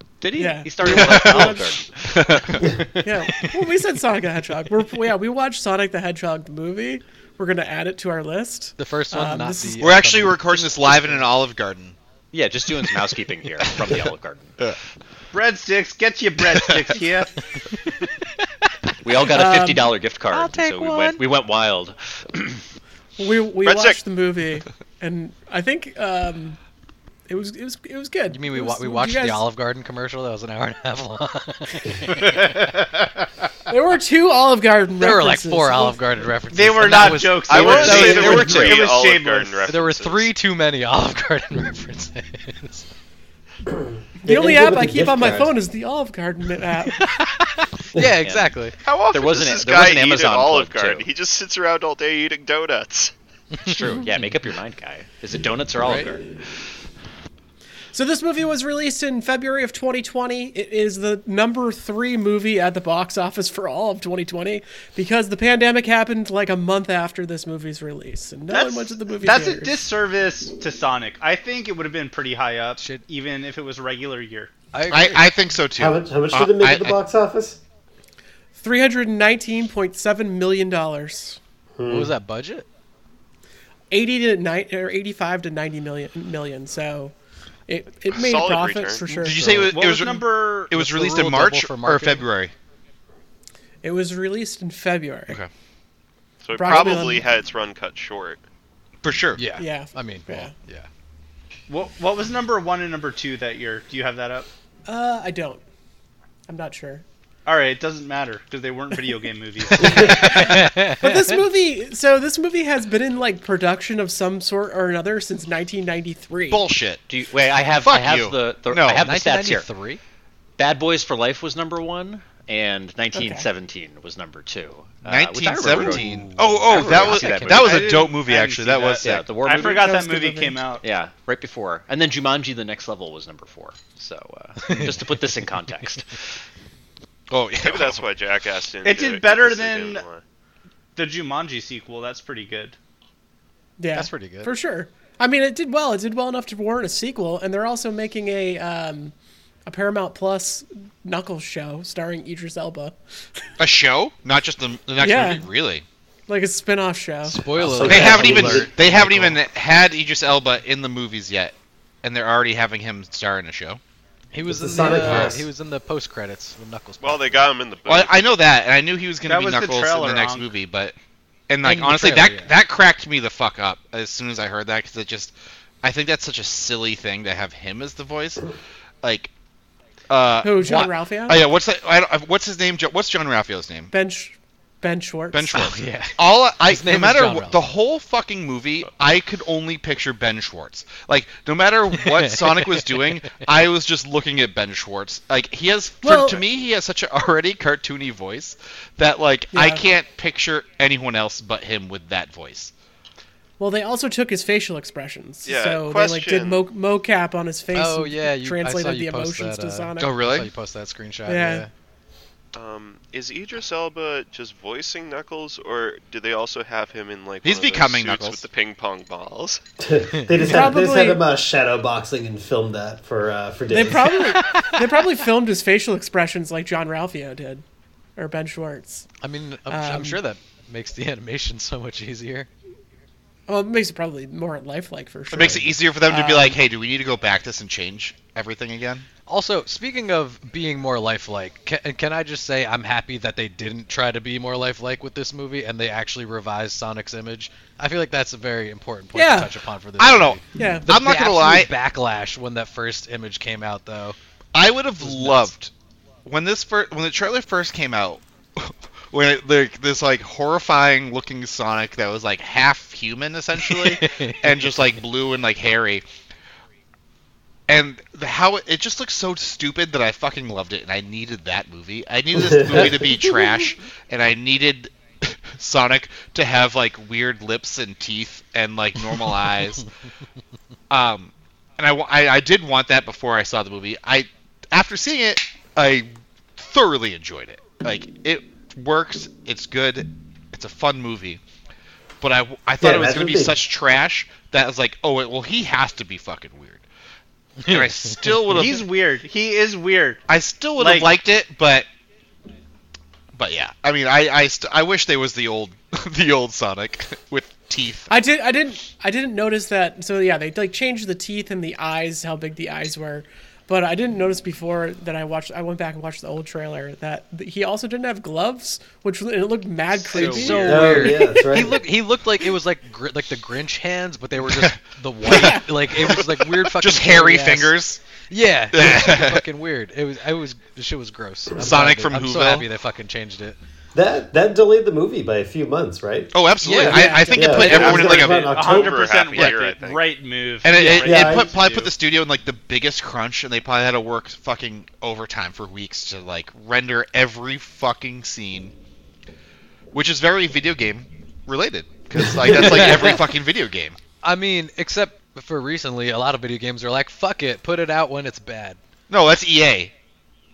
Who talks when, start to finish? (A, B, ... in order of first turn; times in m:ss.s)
0:00.2-0:02.6 A
0:00.4-0:01.8 B
0:00.8-0:02.8 C
0:03.0-0:09.8 B
0:08.8-0:11.3 D
0:09.8-0:12.0 C
0:12.3-0:14.7 A
0:15.3-0:17.4 E
0:17.9-0:18.9 D
0:19.0-0:22.6 A
0:19.3-0:19.9 B
0:20.3-0:21.2 D
0:23.2-0:26.6 B
0:23.6-0:24.0 F
0:27.3-0:29.4 B
0:28.3-0:32.4 D
0:32.2-0:32.6 E
0:33.7-0:36.0 B
0:35.0-0:38.6 D
0:36.5-0:39.7 E
0:37.4-0:40.3 F
0:37.7-0:38.6 A
0:39.7-0:42.9 D
0:44.2-0:47.0 B
0:44.2-0:45.6 G
0:46.8-0:48.8 D
0:48.2-0:48.5 A
0:48.8-0:53.1 F
0:49.1-0:51.1 A
0:53.6-0:54.3 D
0:53.6-0:56.4 A
0:55.8-0:56.1 D
0:57.9-1:09.8 B
1:08.5-1:14.5 E
1:12.8-1:13.0 D
1:14.7-1:15.4 D
1:14.9-1:17.0 C
1:15.8-1:17.6 G
1:18.6-1:21.4 B
1:21.8-1:22.1 G
1:21.9-1:22.7 D
1:23.9-1:27.1 B
1:27.7-1:29.6 B
1:28.1-1:29.2 F
1:29.1-1:32.5 C
1:29.2-1:29.7 D
1:29.6-1:30.8 E
1:30.7-1:32.3 D
1:33.8-1:35.4 B
1:36.4-1:38.4 F
1:36.6-1:37.3 B
1:39.0-1:39.4 C
1:39.4-1:40.9 D
1:39.6-1:40.5 B
1:41.7-1:44.5 E
1:44.9-1:45.6 B
1:46.5-1:47.0 B
1:47.5-1:50.5 E
1:49.9-1:51.4 D
1:50.4-1:56.6 B
1:56.5-1:57.0 C
1:57.1-1:59.7 A
1:57.6-1:59.0 C
1:59.0-2:00.0 D
2:00.6-2:08.0 A
2:03.1-2:03.5 B
2:05.1-2:09.3 C
2:05.7-2:08.1 D
2:06.9-2:10.8 E
2:09.0-2:09.9 A
2:09.6-2:10.6 B
2:10.8-2:16.4 A
2:14.6-2:15.0 D
2:17.3-2:18.1 C
2:17.6-2:20.2 F
2:18.8-2:20.1 E
2:21.0-2:22.8 E
2:23.8-2:29.1 B
2:23.9-2:24.5 D
2:29.7-2:33.0 B
2:33.6-2:35.8 C
2:35.0-2:35.5 B
2:36.3-2:37.4 B
2:37.3-2:39.4 D
2:37.5-2:38.7 G
2:37.8-2:43.8 C
2:44.3-2:47.4 D
2:44.5-2:45.5 G
2:47.0-2:48.3 F
2:47.9-2:50.9 C
2:49.2-2:50.5 E
2:51.5-2:59.3 C
2:51.6-2:52.5 D
3:00.1-3:03.9 C
3:00.4-3:01.4 B
3:00.6-3:00.9 D
3:03.9-3:05.5 B
3:05.3-3:22.7 C
3:05.5-3:07.6 D
3:11.9-3:13.4 D
3:16.0-3:16.4 B
3:19.5-3:19.8 B
3:23.6-3:30.1 B
3:25.4-3:26.7 F
3:27.7-3:31.7 D
3:30.0-3:30.5 C
3:31.3-3:31.7 B
3:32.5-3:39.6 F
3:37.4-3:38.4 C
3:39.8-3:44.2 G
3:40.1-3:40.5 D
3:40.4-3:41.2 B
3:43.7-3:47.6 B
3:44.3-3:45.2 D
3:48.2-3:49.1 B
3:49.2-3:52.5 D
3:49.7-3:50.2 B
3:53.5-3:56.6 B
3:55.3-3:59.1 C
3:59.3-4:14.2 D
4:09.1-4:09.5 B
4:10.0-4:11.7 C
4:10.6-4:11.0 B
4:14.5-4:15.7 C
4:15.0-4:15.5 D
4:16.2-4:26.0 C
4:23.6-4:24.9 D
4:27.7-4:39.9 C
4:32.4-4:33.0 G
4:40.9-4:51.4 C
4:52.2-4:56.8 C
4:52.8-4:53.6 G
4:57.6-4:58.5 D
4:57.7-4:58.9 C
4:58.5-5:00.2 E
5:00.3-5:01.9 C
5:00.8-5:01.1 E
5:03.3-5:08.1 C
5:08.1-5:21.4 B
5:20.0-5:20.9 E
5:20.1-5:33.6 D
5:20.6-5:21.9 G
5:24.5-5:28.0 C
5:25.2-5:25.7 B
5:28.7-5:29.4 C
5:31.6-5:32.7 C
5:34.0-5:36.3 G
5:36.3-5:38.5 C
5:36.6-5:37.6 D
5:36.8-5:37.6 B
5:37.3-5:39.0 G
5:37.6-5:40.1 F
5:38.0-5:41.9 E
5:39.3-5:39.6 C
5:40.6-5:48.7 C
5:40.7-5:41.0 D
5:41.0-5:41.5 G
5:49.9-5:54.0 C
5:52.4-5:53.3 D
5:54.2-5:58.8 D
5:59.1-5:59.9 C